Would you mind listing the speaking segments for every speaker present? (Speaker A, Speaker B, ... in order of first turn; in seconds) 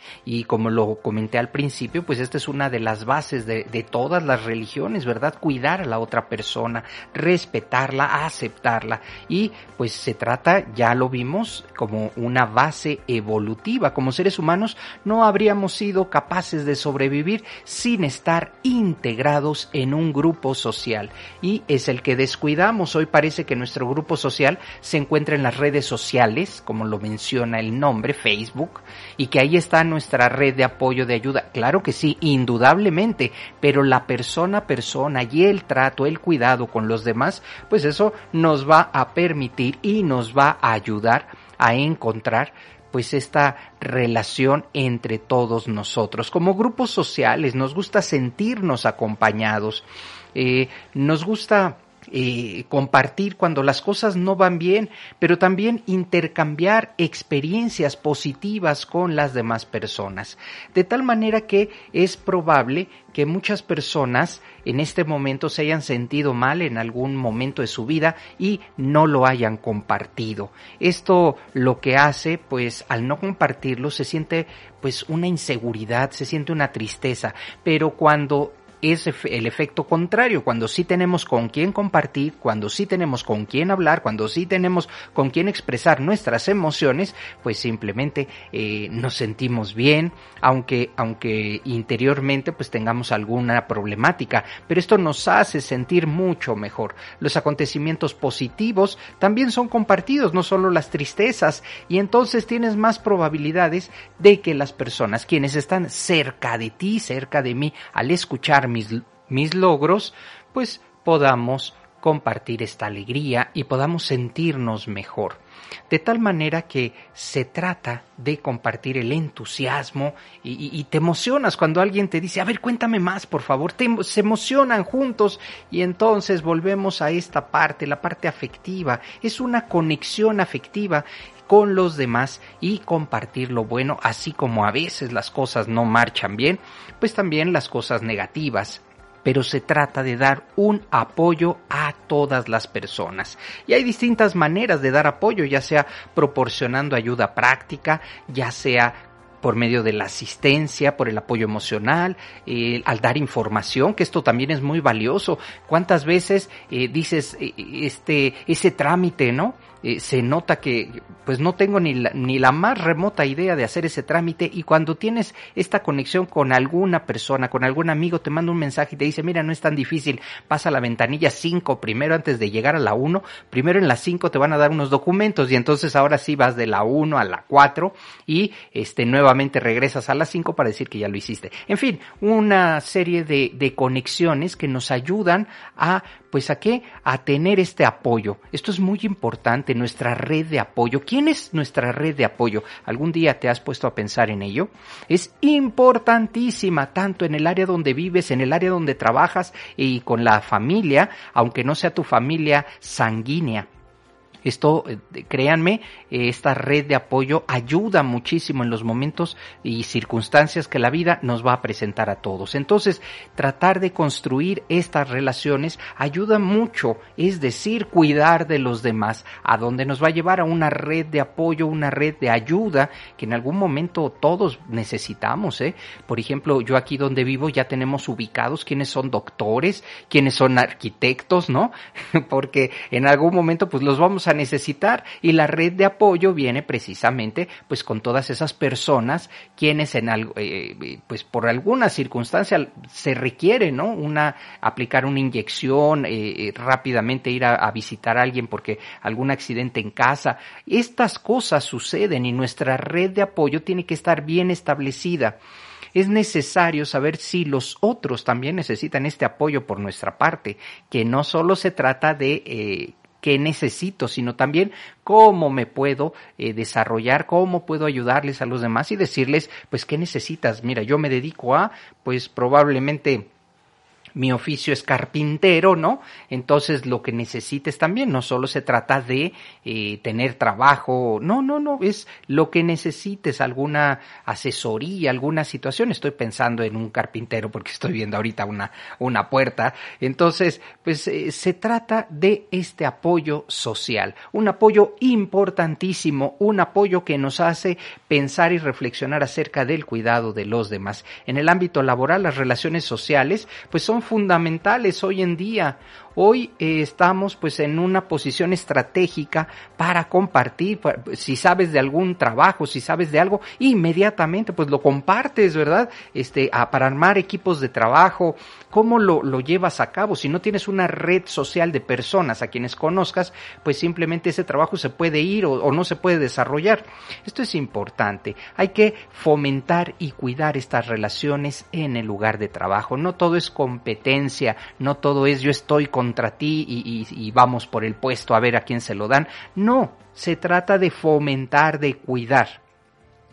Speaker A: 0.2-203.7, 204.4-255.4, 255.9-273.3, 274.1-342.6